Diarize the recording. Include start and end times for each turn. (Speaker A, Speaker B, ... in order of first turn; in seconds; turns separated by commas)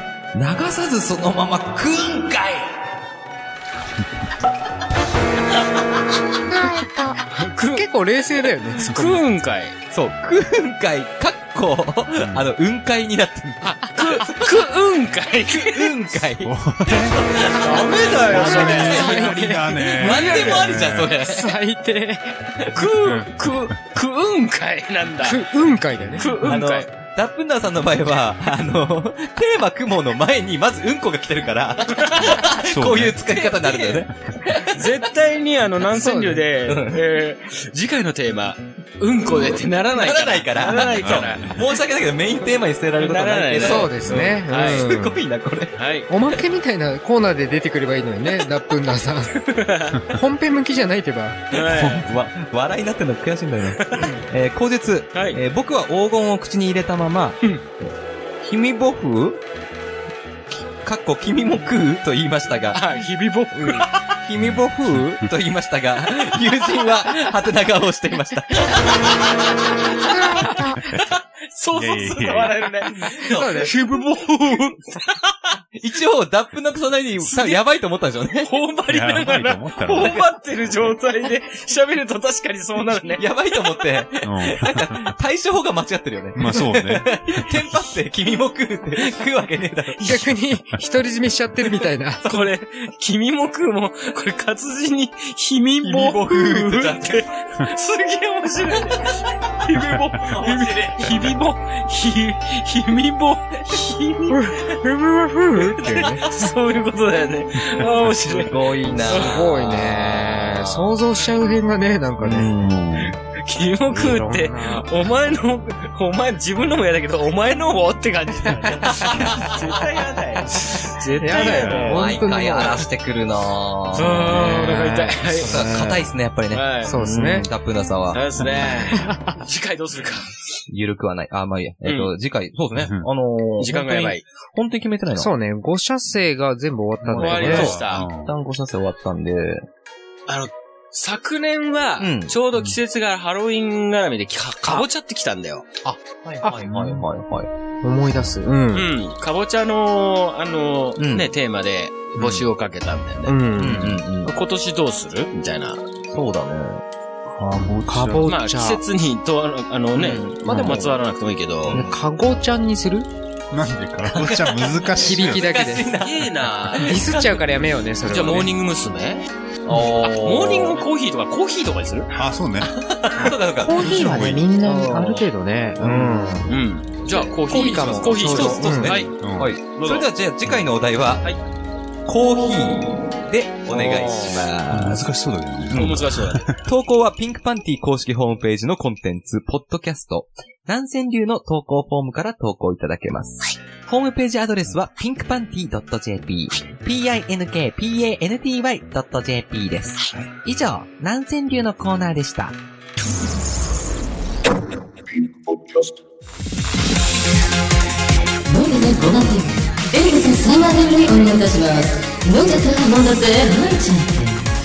Speaker A: 0.3-2.7, Speaker B: 6.6-7.2, Speaker C: 7.3-7.9, Speaker D: 7.7-9.2, Speaker C: 8.8-9.7, Speaker A: 9.9-14.6, Speaker E: 12.2-12.5, Speaker C: 13.6-16.0, Speaker A: 15.6-21.5, Speaker E: 16.4-17.2, Speaker C: 17.4-19.4, Speaker E: 18.1-21.1, Speaker D: 18.3-20.6, Speaker C: 20.0-20.7, Speaker D: 21.2-22.4, Speaker C: 22.7-25.4, Speaker E: 23.0-23.7, Speaker D: 25.2-26.3, Speaker C: 26.2-26.9, Speaker A: 26.4-34.9, Speaker C: 31.9-32.4, Speaker E: 32.6-33.2, Speaker C: 33.3-34.0, Speaker C: 34.7-41.6, Speaker D: 35.9-36.5, Speaker A: 36.6-37.0, Speaker A: 39.3-45.8, Speaker E: 41.0-41.5, Speaker C: 43.0-43.9, Speaker D: 43.6-45.2, Speaker C: 44.5-44.9, Speaker C: 45.8-46.1, Speaker D: 46.1-49.4, Speaker C: 49.4-50.1, Speaker D: 50.0-51.4, Speaker C: 51.5-52.1, Speaker A: 51.5-57.4, Speaker C: 53.8-54.2, Speaker C: 55.1-55.4, Speaker A: 58.4-59.4, Speaker A: 60.8-62.8, Speaker C: 62.7-64.0, Speaker A: 63.5-69.4, Speaker E: 64.4-65.3, Speaker C: 70.2-75.3, Speaker E: 71.7-72.7, Speaker A: 73.1-73.7, Speaker D: 73.2-74.0, Speaker A: 75.8-78.5, Speaker C: 77.2-77.6, Speaker C: 78.4-83.2, Speaker E: 78.9-80.2, Speaker A: 79.9-80.2, Speaker A: 83.2-90.2, Speaker E: 84.2-85.1, Speaker E: 86.3-87.7, Speaker D: 90.0-92.2, Speaker C: 92.2-104.5, Speaker A: 95.8-97.2, Speaker A: 100.2-101.3, Speaker D: 104.3-106.2, Speaker C: 105.6-110.0, Speaker A: 105.8-106.2, Speaker A: 107.8-110.5, Speaker D: 109.1-112.5, Speaker A: 112.2-113.1, Speaker E: 112.6-113.2, Speaker C: 113.4-122.2, Speaker D: 113.9-114.9, Speaker A: 118.7-120.0, Speaker D: 121.2-122.8, Speaker A: 121.3-124.6, Speaker C: 123.9-125.8, Speaker D: 124.2-126.0, Speaker A: 125.3-128.2, Speaker C: 126.5-127.0, Speaker D: 126.8-127.5, Speaker C: 128.1-130.3, Speaker D: 128.9-129.3, Speaker A: 130.7-135.3, Speaker C: 131.8-132.1, Speaker E: 132.7-133.1, Speaker C: 133.6-134.2, Speaker D: 135.2-137.7, Speaker A: 137.0-139.7, Speaker C: 137.2-138.1, Speaker E: 137.5-138.3, Speaker C: 140.3-145.7, Speaker A: 142.0-142.3, Speaker A: 145.8-147.5, Speaker D: 146.4-146.9, Speaker D: 147.8-148.9, Speaker C: 148.7-153.3, Speaker A: 151.0-151.3, Speaker A: 152.2-152.4, Speaker D: 153.2-154.0, Speaker A: 153.6-154.3, Speaker C: 154.2-155.8, Speaker A: 156.1-156.8, Speaker E: 157.3-158.3, Speaker D: 157.9-158.8, Speaker C: 158.2-161.8, Speaker A: 159.9-160.9, Speaker D: 160.4-160.8, Speaker A: 161.7-161.9, Speaker D: 161.7-163.1, Speaker E: 163.5-165.5, Speaker A: 164.1-167.3, Speaker D: 165.0-165.9, Speaker C: 166.0-167.3, Speaker D: 166.8-168.5, Speaker C: 168.1-169.2, Speaker A: 169.6-170.8, Speaker C: 169.8-172.1, Speaker E: 172.1-174.5, Speaker A: 172.6-175.2, Speaker D: 173.6-176.5, Speaker A: 175.8-176.4, Speaker C: 176.5-179.2, Speaker D: 177.1-179.0, Speaker A: 177.8-181.3, Speaker E: 179.1-179.6, Speaker C: 179.7-180.1, Speaker A: 182.1-185.0, Speaker C: 183.8-184.3, Speaker E: 184.7-186.6, Speaker A: 185.7-186.1, Speaker C: 185.7-186.5, Speaker A: 186.6-202.6, Speaker B: 208.5-214.4